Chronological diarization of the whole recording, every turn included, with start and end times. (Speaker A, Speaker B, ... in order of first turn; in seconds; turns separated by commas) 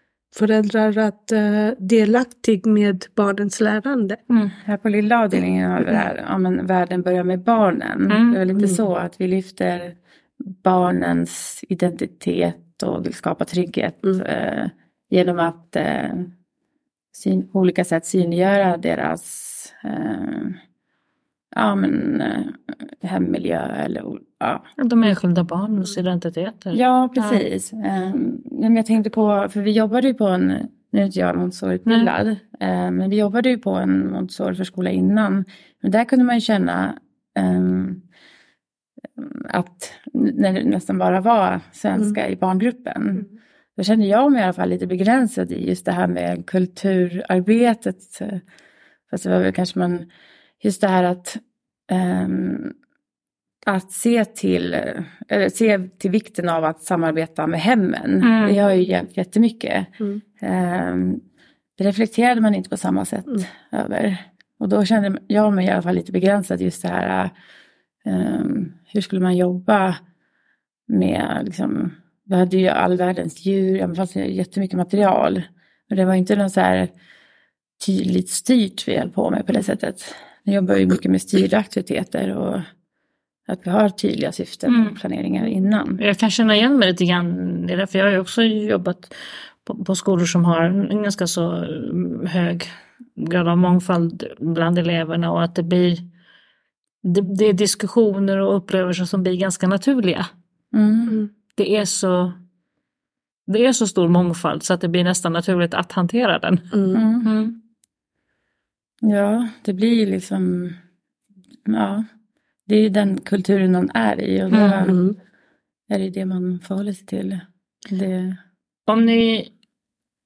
Speaker A: 0.3-4.2, Speaker B: 4.6-16.3, Speaker C: 8.1-8.4, Speaker A: 8.5-8.8, Speaker B: 17.1-20.6, Speaker B: 21.5-24.7, Speaker C: 24.8-27.4, Speaker B: 26.7-38.0, Speaker B: 39.2-48.4, Speaker B: 49.1-50.1, Speaker B: 50.6-52.7, Speaker B: 53.6-61.2, Speaker C: 58.2-58.6, Speaker B: 61.8-67.3, Speaker B: 68.0-70.0, Speaker B: 70.9-76.9, Speaker B: 77.8-82.6, Speaker B: 83.5-86.0, Speaker C: 84.7-85.0, Speaker C: 86.0-96.0, Speaker C: 97.0-100.3, Speaker B: 100.7-101.2, Speaker C: 101.6-102.4, Speaker C: 103.5-106.7, Speaker A: 106.7-107.0, Speaker B: 106.9-107.3, Speaker C: 107.2-107.6, Speaker B: 109.0-110.8, Speaker B: 111.7-112.0, Speaker B: 112.7-115.0, Speaker C: 114.5-114.8, Speaker A: 114.8-115.2, Speaker B: 115.9-118.4, Speaker C: 118.9-119.5